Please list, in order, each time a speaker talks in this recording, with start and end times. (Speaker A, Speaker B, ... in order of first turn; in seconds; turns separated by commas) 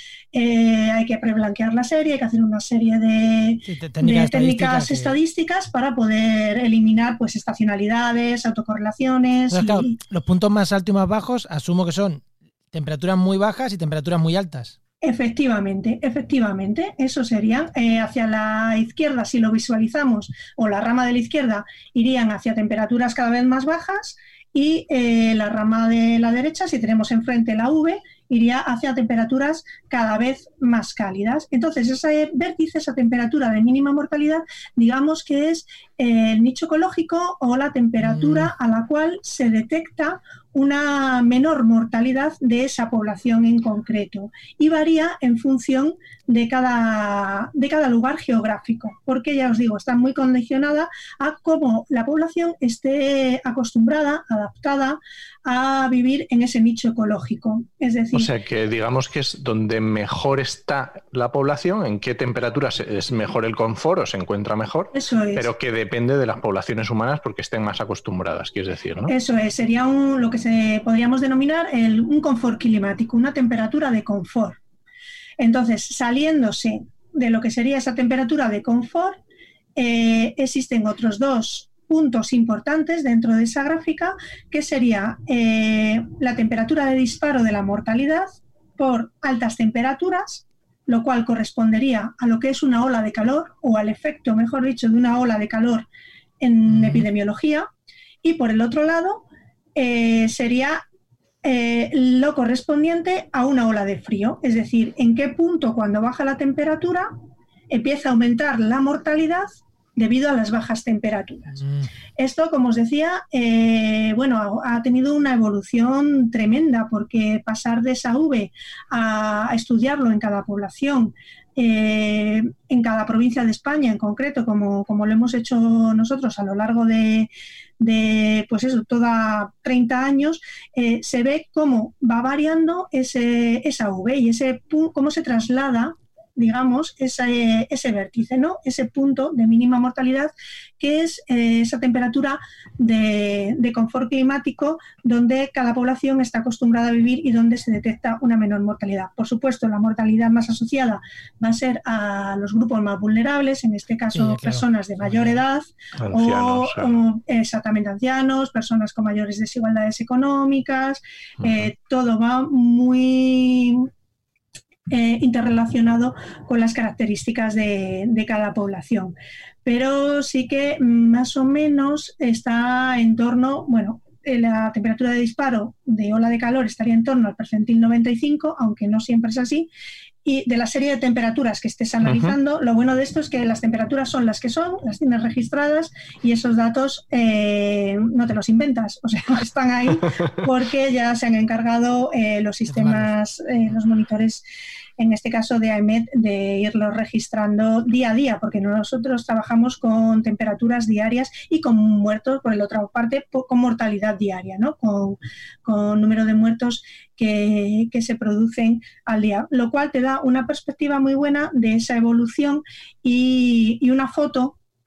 Speaker A: 0.3-9.9, Speaker B: 3.6-5.1, Speaker B: 9.5-14.8, Speaker A: 15.0-58.3, Speaker B: 38.0-38.5, Speaker C: 58.1-69.1, Speaker A: 64.9-65.5, Speaker A: 69.0-74.6, Speaker A: 75.4-79.2, Speaker A: 79.8-88.3, Speaker A: 88.8-95.8, Speaker A: 96.4-97.7, Speaker B: 96.7-97.1, Speaker A: 98.2-100.8, Speaker A: 101.4-107.1, Speaker A: 107.7-111.6, Speaker B: 111.5-111.9, Speaker A: 112.2-163.9, Speaker B: 154.1-155.4, Speaker C: 156.0-157.0, Speaker C: 161.4-161.7, Speaker A: 164.9-169.1, Speaker A: 169.6-179.7, Speaker A: 180.2-194.4, Speaker C: 182.0-182.4, Speaker B: 192.7-193.1, Speaker A: 195.0-214.6